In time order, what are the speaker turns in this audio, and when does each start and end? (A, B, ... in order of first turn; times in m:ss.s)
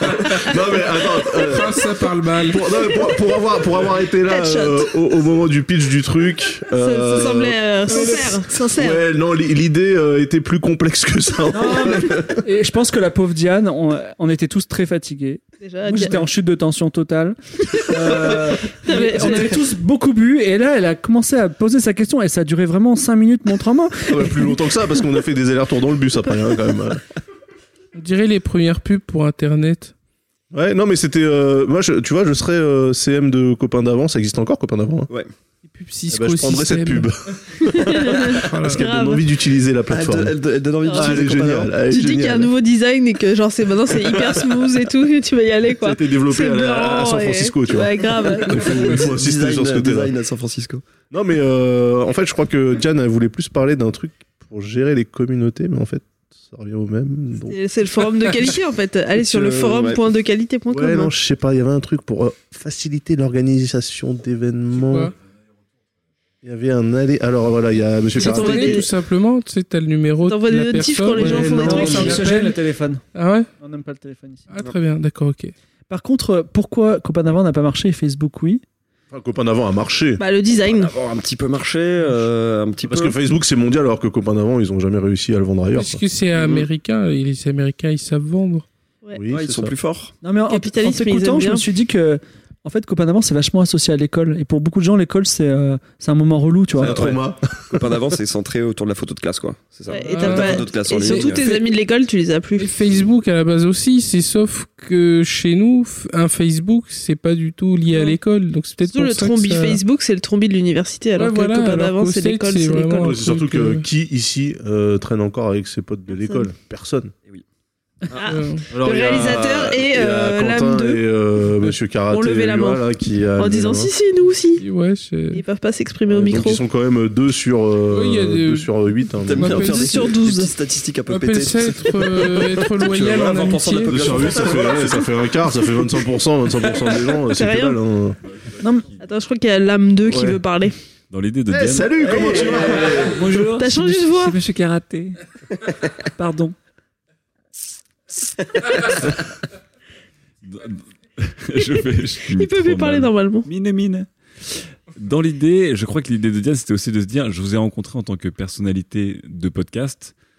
0:00.4-0:01.8 A
0:01.4-0:02.6 B
0:02.5-0:12.4 A
0:04.2-0:04.8 C
0:06.8-0:09.0 C
0:11.5-0:24.4 D
0:15.6-0:16.2 C
0:18.8-0:19.6 C
0:24.1-0:27.0 A
0:28.0-0:29.9 B
0:30.5-0:35.1 A
0:35.7-0:37.1 B
0:36.1-0:40.3 A
0:38.3-0:38.9 B
0:38.8-0:39.2 C
0:39.9-0:41.8 E
0:40.9-0:42.5 A
0:40.9-0:41.2 C
0:41.8-0:48.6 C
0:45.8-0:50.1 A
0:48.5-0:50.8 E
0:51.1-0:57.6 A
0:57.5-1:01.1 C
0:59.2-1:00.0 E
1:00.7-1:05.1 A
1:06.4-1:08.8 A
1:08.2-1:08.9 C
1:08.2-1:12.5 B
1:10.2-1:12.2 C
1:11.2-1:13.0 D
1:11.4-1:12.2 A
1:13.1-1:13.5 B
1:13.6-1:14.4 D
1:14.5-1:15.5 B
1:15.9-1:18.6 D
1:19.1-1:20.2 A
1:20.2-1:20.9 C
1:20.5-1:23.2 E
1:22.8-1:26.0 A
1:25.7-1:28.6 B
1:26.4-1:26.6 E
1:29.1-1:29.7 A
1:29.3-1:30.1 E
1:30.2-1:37.1 D
1:30.5-1:31.6 C
1:36.8-1:37.8 A
1:36.8-1:41.6 E
1:39.9-1:42.8 C
1:40.1-1:40.6 B
1:41.1-1:41.5 B
1:42.6-1:49.8 B
1:47.9-1:48.2 C
1:48.9-1:53.1 C
1:51.2-1:53.8 B
1:53.0-1:57.1 A
1:58.2-2:01.0 C
1:58.3-1:58.6 B
1:58.7-2:03.9 A
2:02.1-2:02.8 C
2:03.4-2:04.6 C
2:04.6-2:05.4 B
2:05.3-2:06.6 C
2:06.1-2:09.9 A
2:07.9-2:08.7 B
2:09.2-2:15.2 E
2:09.3-2:10.1 B
2:09.8-2:10.5 C
2:11.1-2:14.0 B
2:13.9-2:18.2 A
2:17.3-2:17.8 C
2:18.6-2:18.9 D
2:19.0-2:20.7 C
2:20.0-2:20.4 A
2:21.1-2:22.0 F
2:21.5-2:23.4 A
2:22.0-2:25.2 D
2:23.5-2:24.4 C
2:26.2-2:26.5 D
2:30.4-2:34.1 F
2:32.2-2:33.5 C
2:34.9-2:40.1 F